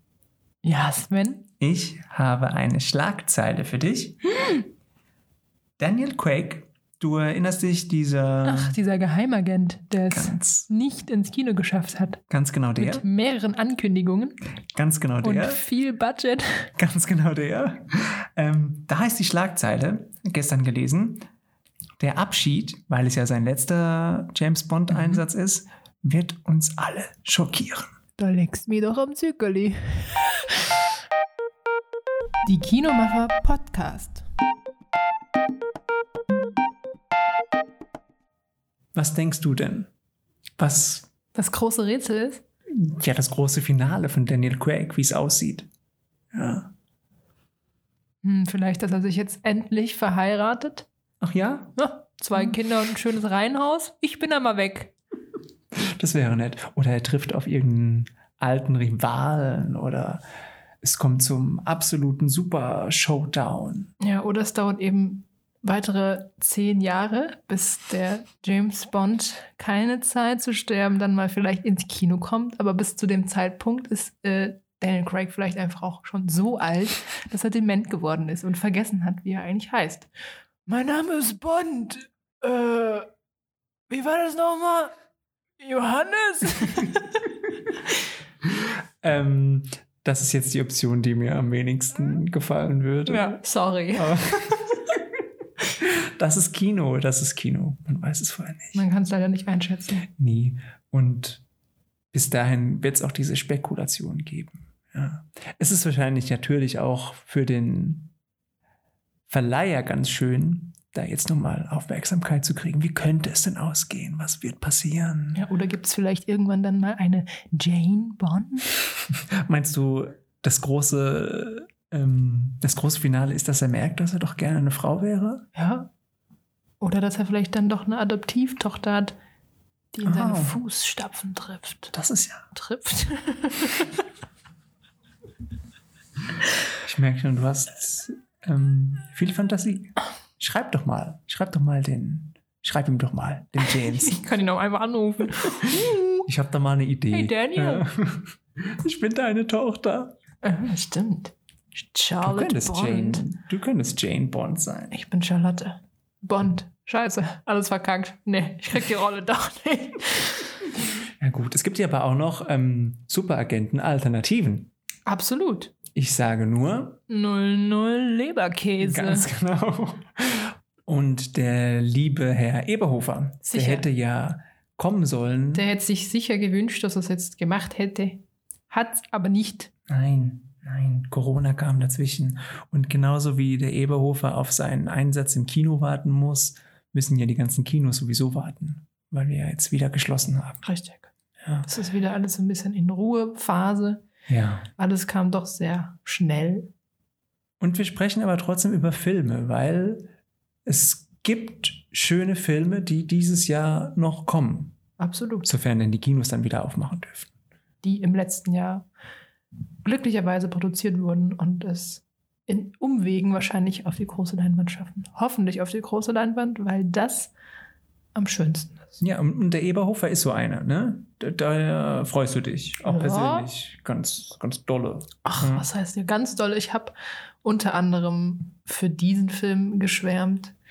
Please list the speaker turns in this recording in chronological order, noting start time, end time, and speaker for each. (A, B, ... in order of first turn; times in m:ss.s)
0:00.6-0:01.5 A
0:01.6-0:04.2 B
0:04.4-0:04.6 A
0:05.8-0:08.8 B
0:08.4-0:12.2 A
0:10.1-0:10.7 B
0:12.3-0:13.0 B
0:12.8-0:14.4 A
0:14.7-0:15.6 B
0:15.2-0:16.7 A
0:16.8-0:21.3 B
0:22.0-0:27.9 B
0:28.2-0:30.8 A
0:32.4-0:34.2 A
0:38.9-0:39.9 B
0:40.6-0:41.1 B
0:41.3-0:42.4 A
0:42.7-0:45.7 B
0:46.3-0:46.7 B
0:48.2-0:50.9 A
0:51.2-0:51.8 B
0:51.8-0:54.9 A
0:55.7-1:00.2 B
1:00.8-1:03.9 B
1:04.0-1:20.1 A
1:20.6-1:23.1 A
1:23.9-1:24.9 A
1:25.6-1:27.2 A
1:29.0-1:33.4 B
1:33.0-1:34.5 A
1:33.9-1:34.9 B
1:35.8-1:38.8 B
1:38.7-1:40.1 A
1:40.2-1:41.4 B
1:42.1-1:48.1 B
1:49.3-1:55.4 B
1:55.3-1:58.7 A
1:59.3-2:05.5 B
2:05.5-2:05.9 A
2:06.8-2:09.2 A
2:09.9-2:11.9 A
2:10.0-2:10.6 B
2:11.9-2:12.5 B
2:12.5-2:14.0 A
2:16.8-2:24.2 B
2:23.6-2:26.2 A
2:26.2-2:30.2 B
2:27.1-2:27.9 A
2:30.4-2:33.3 A
2:32.2-2:34.9 B
2:34.9-2:40.6 A
2:41.2-2:44.7 B
2:45.0-2:45.7 A
2:45.9-2:47.0 B
2:47.1-2:49.3 A
2:48.8-2:55.6 B
2:53.4-2:53.9 A
2:55.5-2:59.7 A
2:59.9-3:10.6 B
3:10.6-3:11.1 A
3:11.4-3:11.7 B
3:11.7-3:14.0 A
3:14.3-3:14.7 B
3:14.8-3:16.7 A
3:17.6-3:20.1 B
3:20.6-3:24.8 B
3:25.0-3:25.5 A
3:25.4-3:27.3 B
3:27.8-3:28.8 A
3:29.8-3:37.3 A
3:38.1-3:39.0 A
3:39.0-3:45.7 B
3:42.8-3:43.5 A
3:45.2-3:50.5 A